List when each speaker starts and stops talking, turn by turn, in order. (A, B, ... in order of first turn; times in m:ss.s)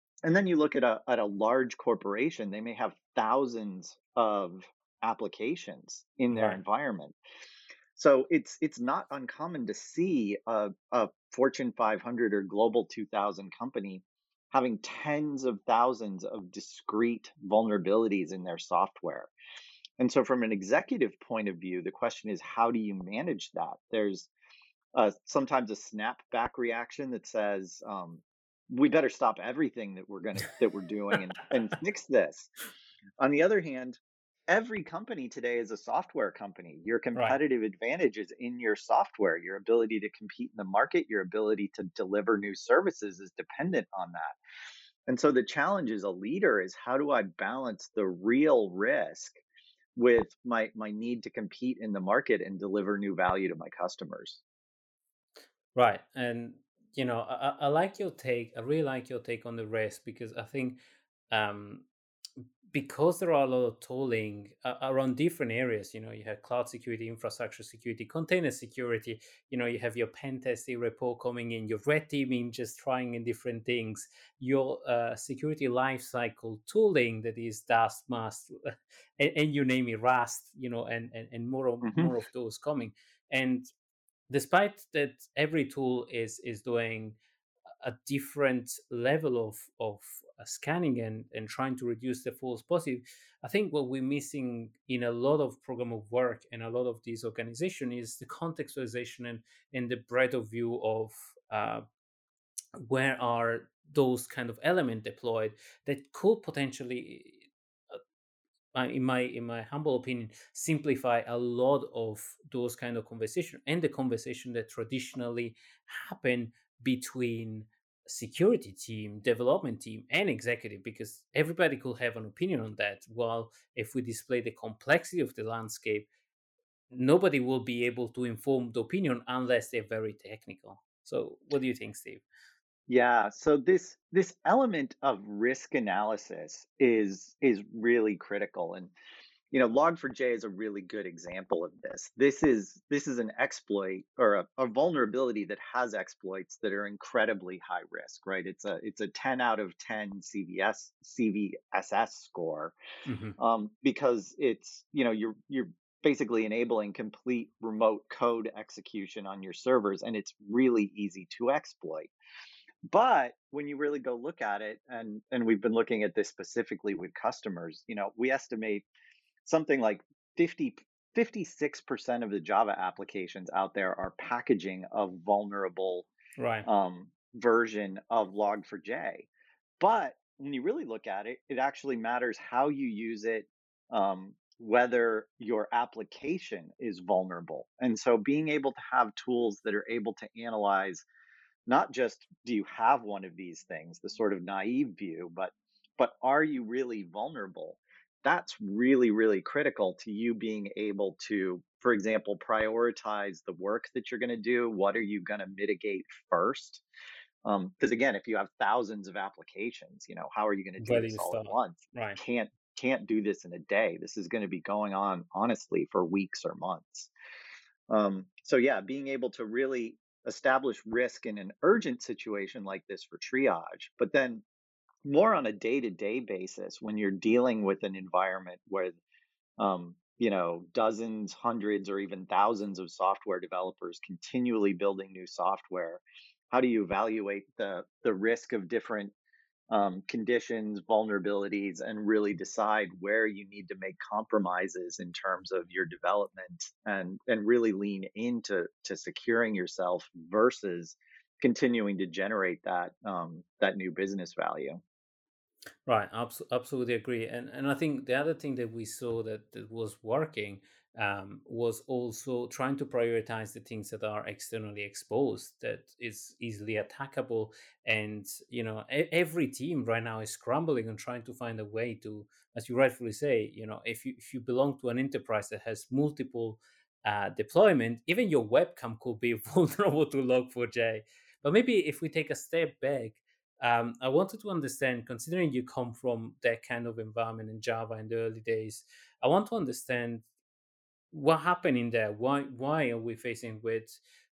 0:00.2-0:07.2 A
0:06.3-0:06.6 B
0:08.0-0:19.3 A
0:20.0-0:24.3 A
0:24.9-0:32.5 A
0:33.2-0:44.4 A
0:45.1-0:49.4 A
0:50.0-0:54.4 A
0:55.8-1:00.8 B
1:01.3-1:01.9 B
1:02.7-1:23.7 B
1:21.8-1:22.1 A
1:24.3-1:27.2 B
1:27.8-1:41.8 B
1:42.8-1:47.4 B
1:48.8-2:06.1 B
2:06.9-2:12.2 B
2:12.9-2:18.9 A
2:19.5-2:32.8 A
2:33.1-2:33.4 B
2:33.4-2:42.1 A
2:42.9-2:48.9 A
2:49.4-2:56.1 A
2:56.4-2:56.7 B
2:56.7-2:59.3 A
2:59.8-3:11.0 A
3:11.7-3:26.8 A
3:27.4-3:37.1 A
3:30.8-3:32.2 B
3:37.9-3:44.4 A
3:45.0-3:49.0 A
3:49.6-3:59.1 A
3:59.7-4:14.8 A
4:15.9-4:50.2 B
4:51.1-4:54.0 B